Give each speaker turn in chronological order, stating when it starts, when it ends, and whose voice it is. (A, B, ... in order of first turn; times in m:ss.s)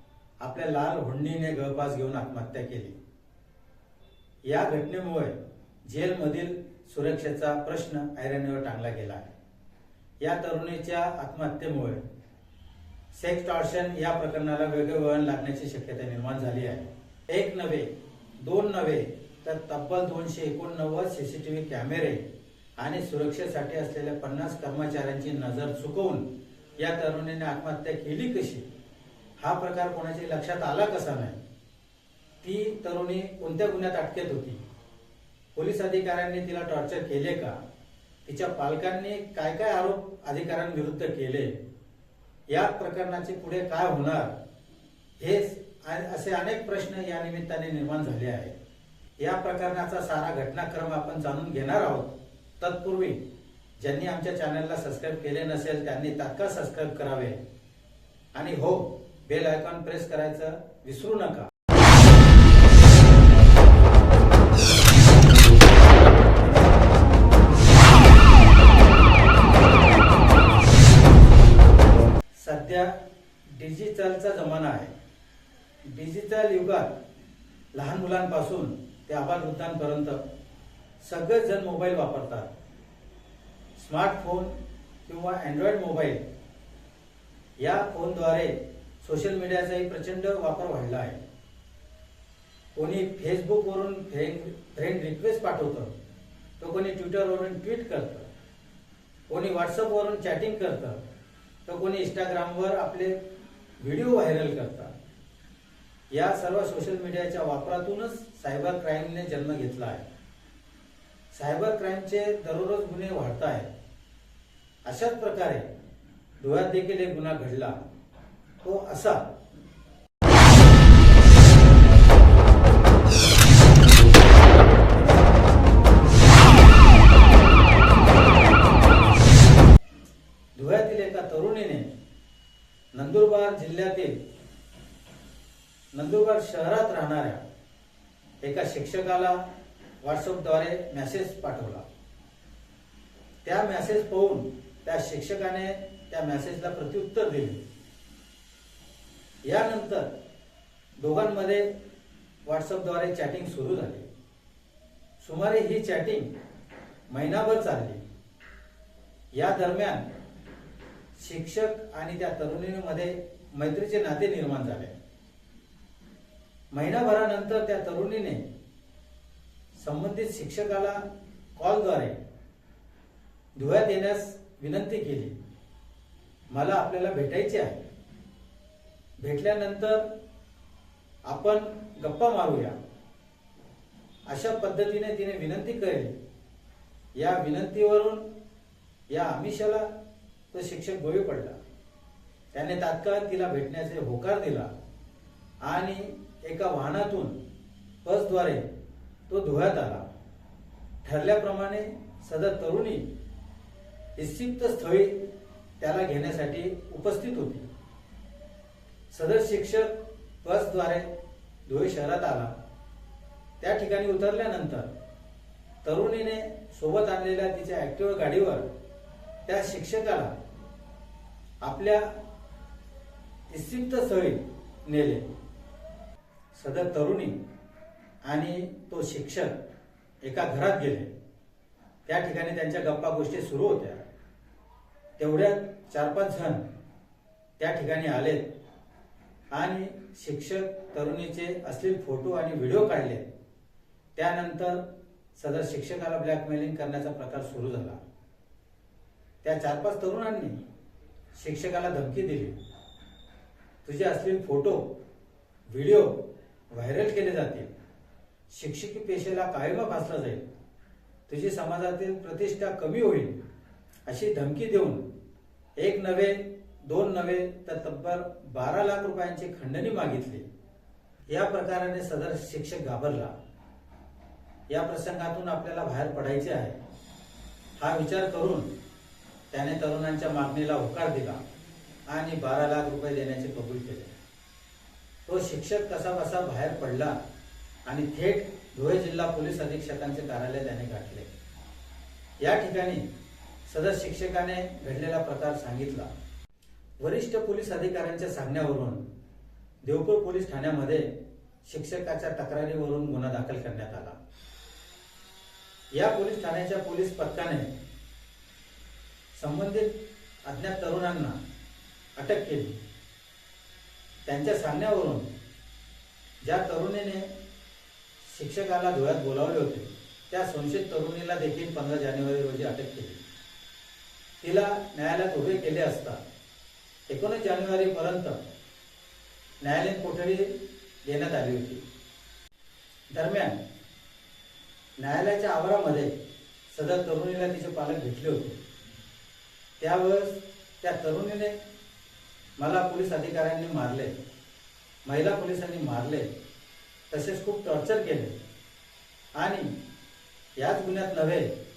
0:00.4-0:03.0 A
0:04.5-0:09.4 A
0:10.2-0:12.0 A
0:13.1-0:22.2 A
0:22.8-0:26.3 A
0:26.8-0:28.7 A
0:29.4-0:31.4 A
0:32.4-0:34.6 A
0:35.6-0:37.6 A
0:38.2-0:41.6 A
0:42.5-0:44.4 A
0:45.2-0:48.6 A
0:49.2-0:53.2 A
0:53.8-0:57.4 A
0:58.3-1:01.5 A
1:12.4-1:12.9 A
1:13.6-1:14.9 A
1:15.9-1:17.0 A
1:17.7-1:20.2 A
1:21.0-1:22.5 A
1:23.8-1:24.5 A
1:25.1-1:26.2 A
1:27.6-1:31.2 A
1:32.7-1:35.9 A
1:36.6-1:38.3 A
1:39.3-1:41.0 A
1:41.7-1:43.2 A
1:43.8-1:44.9 A
1:46.1-1:50.1 A
1:51.3-1:53.7 A
1:54.8-1:55.7 A
1:56.4-1:57.8 A
1:58.6-1:59.2 A
2:10.6-2:11.9 A
2:12.9-2:14.2 A
2:15.9-2:17.4 A
2:18.4-2:19.4 A
2:20.0-2:21.9 A
2:23.4-2:27.6 A
2:29.4-2:30.1 A
2:31.0-2:31.7 A
2:32.4-2:34.1 A
2:35.2-2:36.3 A
2:37.1-2:38.0 A
2:39.3-2:40.1 A
2:41.2-2:45.0 A
2:46.7-2:48.4 A
2:49.8-2:51.0 A
2:51.6-2:52.2 A
2:53.6-2:55.4 A
2:56.5-2:57.8 A
2:59.2-3:00.0 A
3:01.3-3:02.8 A
3:04.3-3:06.2 A
3:07.2-3:08.2 A
3:09.1-3:09.9 A
3:10.5-3:11.6 A
3:12.5-3:14.7 A
3:15.6-3:17.4 A
3:18.0-3:18.6 A
3:19.3-3:20.1 A
3:21.0-3:23.1 A
3:24.2-3:25.2 A
3:25.8-3:27.7 A
3:29.1-3:31.1 A
3:31.7-3:32.5 A
3:33.6-3:34.9 A
3:35.8-3:38.6 A
3:39.5-3:40.3 A
3:41.6-3:42.1 A
3:43.5-3:45.3 A
3:46.5-3:47.4 A
3:48.2-3:49.6 A
3:50.2-3:51.1 A
3:52.1-3:54.0 A
3:55.2-3:56.6 A
3:57.6-3:58.5 A
3:59.5-4:03.2 A
4:04.2-4:04.8 A
4:05.4-4:08.0 A
4:09.4-4:10.6 A
4:11.4-4:12.6 A
4:13.8-4:14.9 A
4:15.7-4:16.2 A
4:16.7-4:17.7 A
4:18.5-4:20.5 A
4:21.3-4:23.4 A
4:24.1-4:25.0 A
4:25.8-4:30.5 A
4:31.3-4:33.3 A
4:34.7-4:36.8 A
4:37.8-4:38.7 A
4:39.5-4:41.4 A
4:42.1-4:44.1 A
4:45.2-4:47.2 A
4:47.9-4:51.3 A
4:52.4-4:53.0 A
4:53.7-4:56.1 A
4:57.0-4:59.0 A
4:59.8-5:01.1 A
5:01.6-5:04.2 A
5:05.9-5:07.7 A
5:09.4-5:09.9 A
5:10.5-5:11.4 A
5:12.2-5:12.8 A
5:14.3-5:15.3 A
5:16.4-5:17.3 A
5:18.2-5:23.2 A
5:24.4-5:26.2 A
5:27.1-5:28.4 A
5:29.6-5:31.8 A
5:33.1-5:33.6 A
5:35.0-5:36.1 A
5:36.7-5:38.6 A
5:39.8-5:41.6 A
5:42.6-5:44.1 A
5:45.1-5:46.3 A
5:47.1-5:48.4 A
5:49.4-5:49.7 A
5:50.6-5:51.5 A